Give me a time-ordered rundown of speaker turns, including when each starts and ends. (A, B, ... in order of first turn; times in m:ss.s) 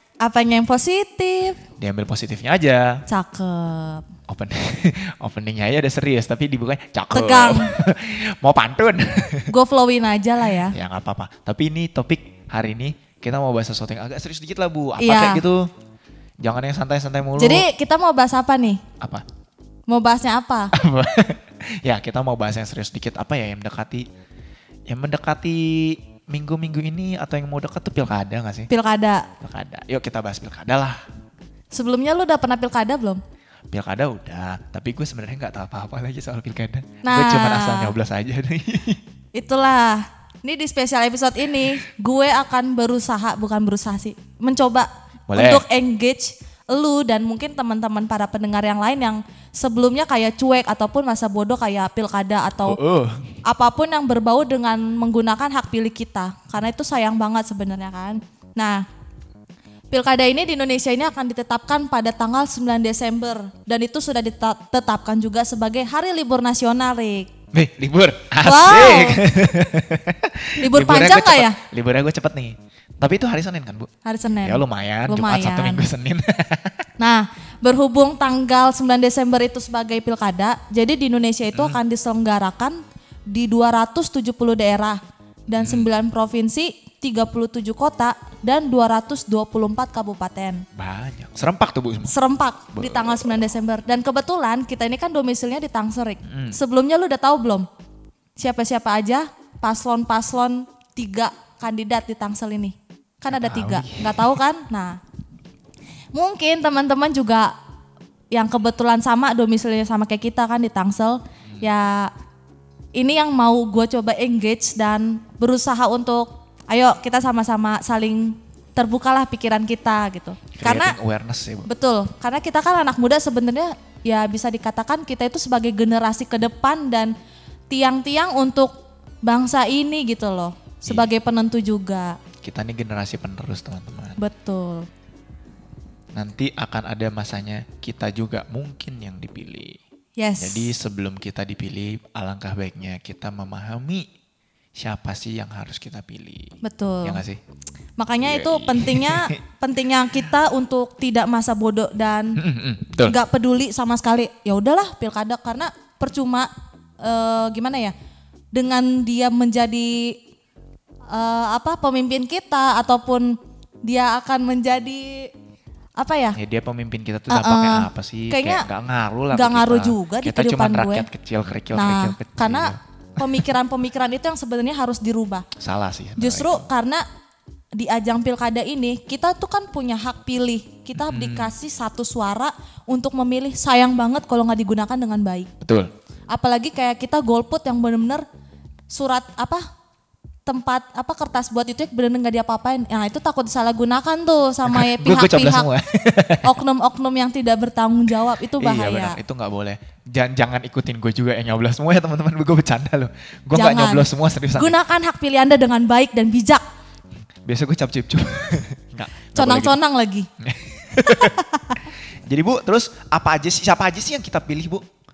0:00.2-0:01.6 A
0:01.8-0:03.0 B
0:03.1-0:04.0 A
0:04.3-0:09.5 B
0:07.1-0:07.7 A
0:09.5-0:10.7 A
0:10.7-0:15.6 B
0:15.0-0:15.4 A
0:16.4-0:17.6 B
0:17.4-0:18.8 A
0:19.9-0:20.7 A
0:20.7-0:24.0 B
0:24.9-0:28.7 B
0:28.7-0:29.2 A
0:29.4-0:31.0 B
0:31.7-0:33.2 A
0:33.7-0:39.0 B
0:37.0-0:37.9 A
0:39.3-0:52.8 A
0:45.3-0:45.6 B
0:52.6-0:53.4 B
0:53.4-0:58.8 A
0:59.9-1:07.3 A
1:07.5-1:13.9 B
1:08.4-1:09.2 A
1:10.6-1:11.6 A
1:14.0-1:15.8 A
1:14.4-1:16.8 B
1:17.0-1:22.8 A
1:21.5-1:21.8 B
1:23.3-1:25.0 A
1:25.5-1:30.6 A
1:25.5-1:25.9 B
1:30.7-1:32.2 B
1:32.1-1:37.7 A
1:32.7-1:33.4 B
1:36.2-1:36.6 B
1:38.4-1:45.0 A
1:43.3-1:44.4 B
1:46.1-1:47.5 A
1:48.3-1:52.1 A
1:53.0-2:00.9 A
2:00.6-2:01.7 B
2:01.6-2:07.1 A
2:07.7-2:08.7 A
2:09.2-2:12.2 A
2:10.9-2:11.1 B
2:12.4-2:14.2 B
2:14.2-2:14.8 A
2:16.1-2:19.8 B
2:20.2-2:20.7 A
2:20.4-2:24.1 B
2:24.8-2:27.4 B
2:26.6-2:27.2 A
2:28.0-2:32.4 A
2:28.2-2:29.4 B
2:32.4-2:33.2 B
2:33.0-2:36.5 A
2:37.0-2:37.9 A
2:38.5-2:40.1 A
2:41.1-2:43.3 A
2:43.8-2:45.3 A
2:46.0-2:46.4 A
2:46.4-2:53.5 B
2:47.3-2:48.6 A
2:49.3-2:51.1 A
2:51.7-2:55.4 A
2:55.6-2:56.6 B
2:56.2-2:57.0 A
2:57.7-3:05.5 A
3:01.0-3:01.5 B
3:05.6-3:05.9 B
3:06.3-3:08.2 A
3:08.9-3:09.6 A
3:10.5-3:15.7 A
3:14.6-3:16.6 B
3:16.4-3:19.2 A
3:18.6-3:24.8 B
3:23.5-3:26.6 A
3:27.4-3:29.8 B
3:29.3-3:30.3 A
3:30.4-3:31.4 B
3:31.0-3:31.8 A
3:31.9-3:34.8 B